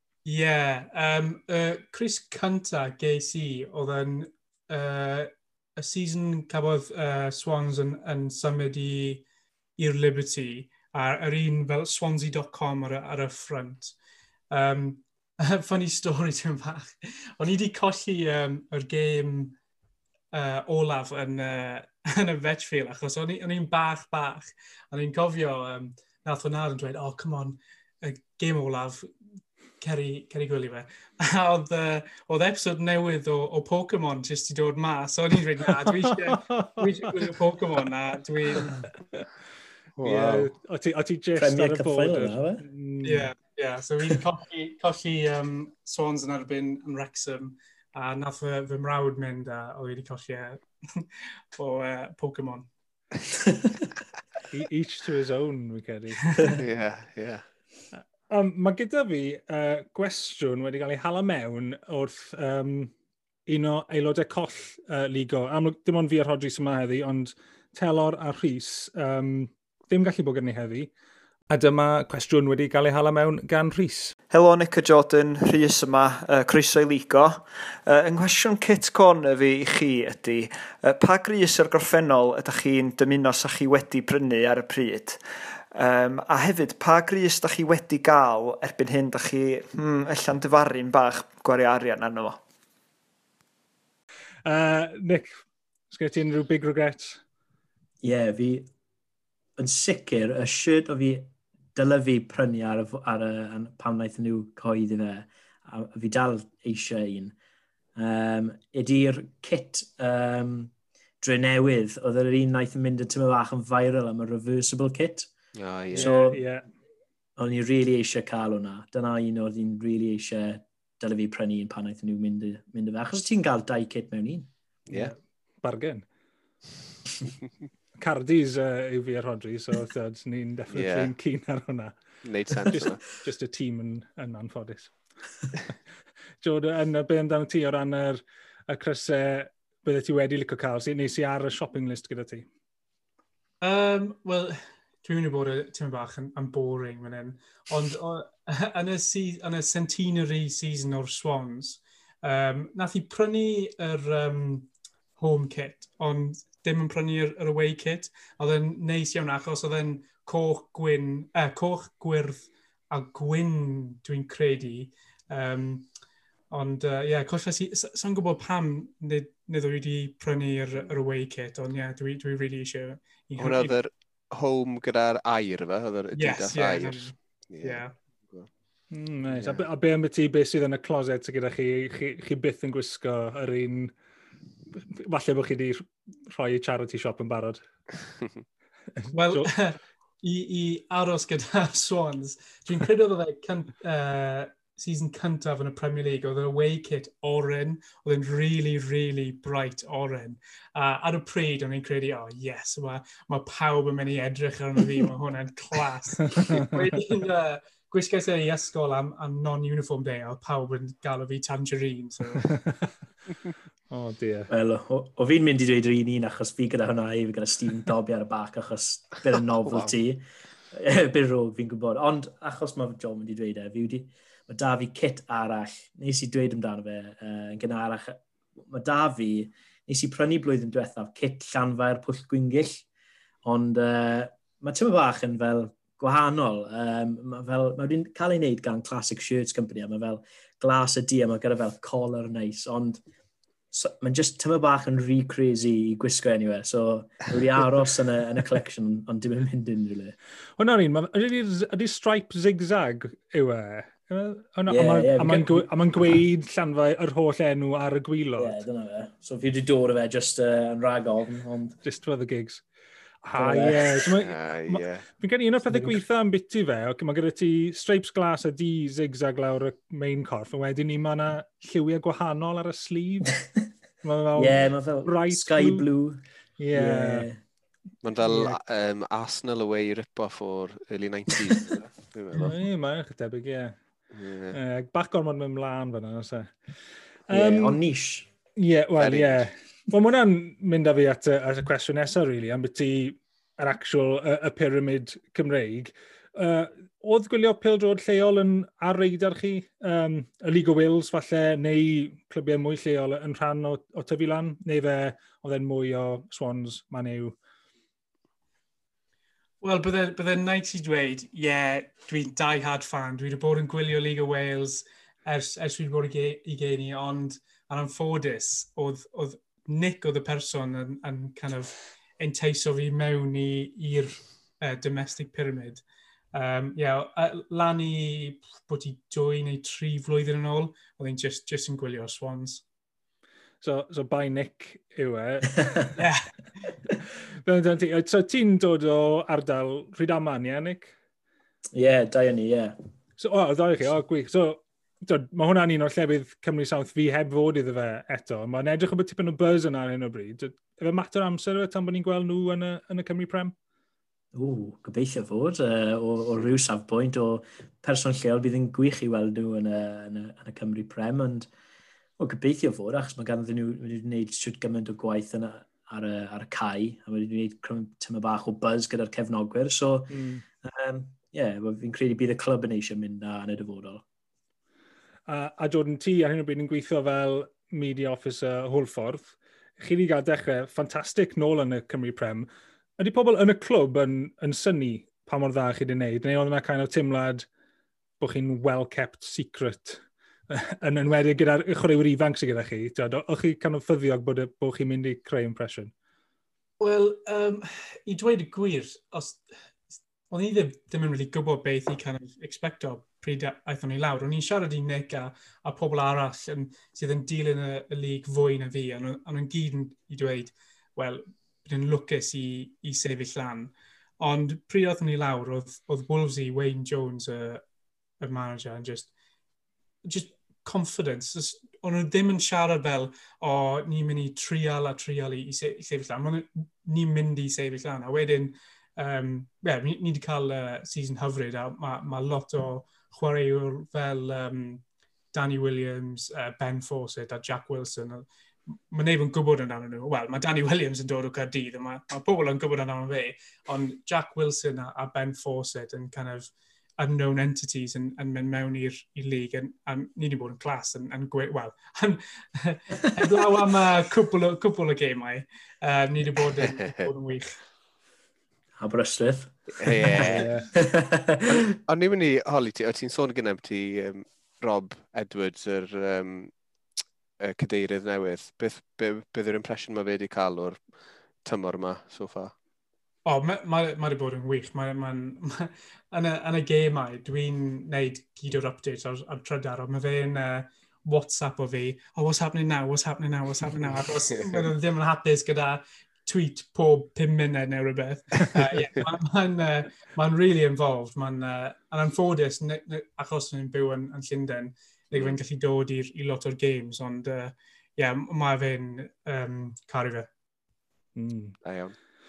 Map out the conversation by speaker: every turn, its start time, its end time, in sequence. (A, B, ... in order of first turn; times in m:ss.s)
0:00.2-0:09.2 A
0:09.8-0:13.9 A
0:14.5-0:19.6 A
0:20.3-0:29.1 A
0:29.8-0:38.8 A
0:36.3-0:36.8 B
0:40.0-0:43.3 B
0:40.0-0:40.5 C
0:41.4-0:42.6 D
0:43.0-0:52.7 A
0:54.5-0:56.6 B
0:56.5-0:57.4 C
0:57.9-1:02.9 B
1:03.5-1:10.9 B
1:11.5-1:14.1 B
1:14.3-1:25.2 E
1:25.7-1:32.4 E
1:34.4-1:37.2 B
1:38.0-1:38.7 D
1:39.6-1:47.3 D
1:48.0-1:55.3 D
1:55.5-1:56.1 C
1:55.9-1:56.4 D
1:55.9-1:56.6 B
1:57.4-2:04.5 D
2:04.9-2:06.0 B
2:08.0-2:12.0 B
2:10.7-2:11.1 C
2:12.2-2:13.0 C
2:12.6-2:14.9 B
2:16.4-2:22.4 B
2:23.6-2:45.9 A
2:46.5-2:53.7 A
2:53.4-2:58.5 C
2:56.1-2:57.9 A
2:58.9-3:03.9 B
2:59.3-2:59.6 C
3:04.9-3:07.6 B
3:09.1-3:09.5 B
3:09.1-3:32.6 A
3:26.3-3:26.8 B
3:32.5-3:32.9 B
3:33.9-3:34.5 B
3:34.5-3:52.8 D
3:53.4-4:03.0 D
4:03.7-4:10.2 D
4:10.6-4:18.6 B
4:14.7-4:15.6 D
4:18.4-4:21.8 D
4:21.8-4:22.6 B
4:23.2-4:33.4 B
4:23.3-4:24.1 D
4:24.1-4:25.0 C
4:25.7-4:26.0 D
4:34.0-4:35.8 B
4:34.4-4:36.2 D
4:36.6-4:37.3 B
4:36.7-4:37.4 D
4:38.0-4:42.5 C
4:38.2-4:38.6 B
4:42.4-4:43.8 B
4:44.1-4:44.6 C
4:44.5-4:46.5 B
4:47.3-4:47.8 B
4:47.3-4:48.3 D
4:48.6-5:07.4 B
4:49.0-4:49.4 C
5:09.6-5:32.6 A
5:33.6-5:35.8 B
5:36.0-5:36.2 A
5:37.4-5:40.9 B
5:41.7-5:42.8 D
5:43.2-5:53.5 B
5:54.3-6:01.5 D
6:02.2-6:14.0 D
6:10.1-6:10.4 B
6:15.3-6:27.5 B
6:28.2-6:35.9 B
6:36.8-6:39.4 A
6:40.3-6:57.6 A
6:58.2-6:59.1 A
7:00.0-7:14.8 A
7:15.3-7:18.2 A
7:18.8-7:37.5 A
7:36.6-7:37.1 C
7:38.8-7:40.1 D
7:39.8-7:40.5 C
7:40.1-7:40.7 A
7:40.7-7:41.7 D
7:41.9-7:46.5 C
7:47.4-7:50.9 C
7:51.4-7:52.5 C
7:53.2-8:20.3 A
8:03.8-8:04.6 C
8:15.1-8:15.4 C
8:21.2-8:21.5 B
8:21.6-8:21.9 C